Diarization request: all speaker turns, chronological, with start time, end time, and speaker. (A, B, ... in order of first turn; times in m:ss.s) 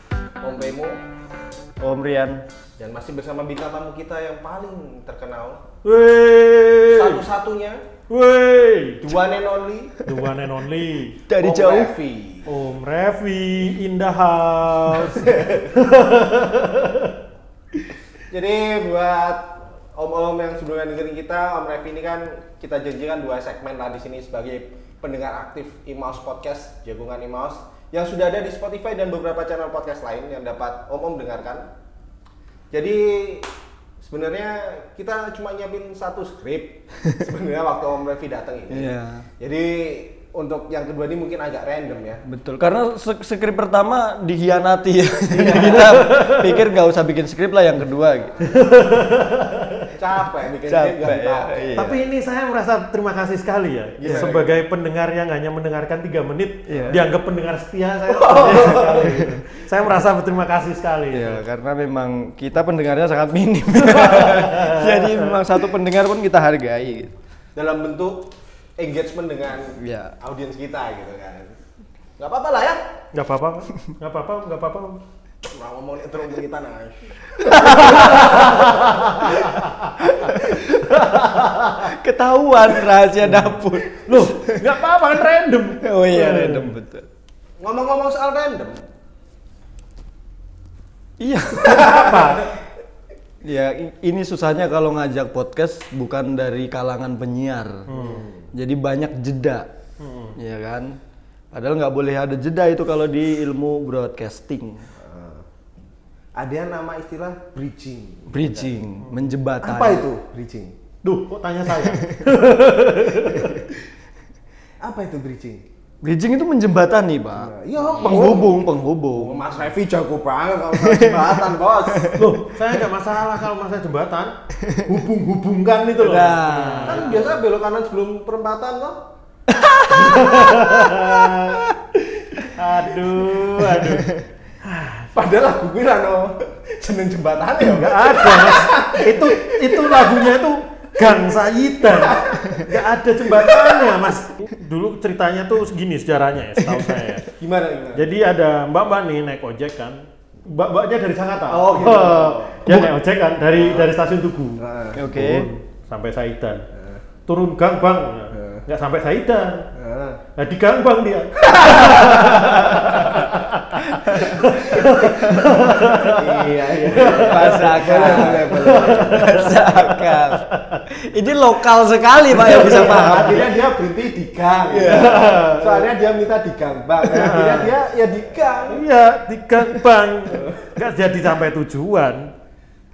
0:00.4-0:01.0 A
0:01.8-0:02.4 B
0:02.8-0:05.6 A
0:05.8-0:07.2 C
0:06.9-0:07.8 A
0:08.1-0:09.1 C
0:09.0-0:10.0 A
0:10.0-0:11.2 C
0:11.3-0:11.9 B
0:11.4-0:12.5 A
0:12.5-0:17.1 C
0:15.2-0:15.7 A
0:18.3-0:31.7 A
0:32.7-0:33.5 A
0:34.0-0:42.2 A
0:38.7-0:39.3 B
0:42.2-0:48.4 B
0:45.3-0:46.0 A
0:45.5-0:46.6 C
0:48.4-0:49.9 C
0:49.9-0:51.8 A
0:50.7-0:52.0 B
0:51.8-1:01.4 C
0:54.0-0:54.5 B
0:54.0-0:54.5 A
0:56.7-0:57.1 B
0:58.1-0:59.1 A
0:59.0-0:59.4 B
1:01.1-1:07.1 B
1:03.8-1:05.4 C
1:07.6-1:11.6 A
1:09.8-1:10.2 B
1:12.2-1:12.8 A
1:13.1-1:15.0 C
1:15.4-1:19.7 A
1:17.4-1:18.5 B
1:17.5-1:21.9 C
1:20.0-1:20.8 B
1:21.8-1:24.6 B
1:23.2-1:26.8 C
1:25.8-1:27.1 B
1:27.6-1:28.8 A
1:31.2-1:32.4 B
1:31.6-1:32.4 A
1:31.6-1:32.5 C
1:33.4-1:37.9 B
1:37.9-1:38.3 C
1:37.9-1:38.5 A
1:38.5-1:39.7 B
1:40.0-1:40.4 C
1:40.4-1:41.0 B
1:41.5-1:44.9 B
1:45.0-1:45.4 A
1:46.4-1:48.7 A
1:48.3-1:50.1 B
1:49.6-1:50.8 A
1:51.0-1:53.7 C
1:54.8-1:55.6 A
1:56.0-1:59.4 B
1:57.4-1:58.5 A
1:59.2-2:02.2 A
2:00.8-2:02.3 B
2:02.2-2:04.3 C
2:04.6-2:04.9 B
2:04.8-2:07.4 C
2:06.0-2:07.3 B
2:06.8-2:09.0 A
2:09.5-2:10.3 B
2:09.9-2:11.3 A
2:09.9-2:11.6 C
2:12.5-2:14.1 C
2:13.7-2:14.3 B
2:14.6-2:15.2 C
2:15.1-2:20.3 A
2:17.6-2:27.3 C
2:21.8-2:22.7 A
2:23.3-2:23.8 A
2:26.6-2:27.0 B
2:27.3-2:28.1 A
2:28.0-2:36.7 C
2:31.5-2:32.7 A
2:32.7-2:32.9 B
2:33.6-2:33.9 A
2:34.6-2:35.0 A
2:35.0-2:35.5 B
2:36.7-2:37.0 A
2:37.3-2:39.7 C
2:38.3-2:38.6 A
2:39.7-2:40.2 A
2:40.4-2:50.8 C
2:41.4-2:43.2 A
2:42.2-2:43.1 B
2:43.9-2:45.5 B
2:44.2-2:49.5 A
2:47.1-2:53.6 B
2:52.4-2:58.8 A
2:54.7-2:55.2 B
2:54.8-2:55.9 C
2:57.1-2:57.7 C
2:58.7-3:02.3 C
3:00.3-3:00.7 A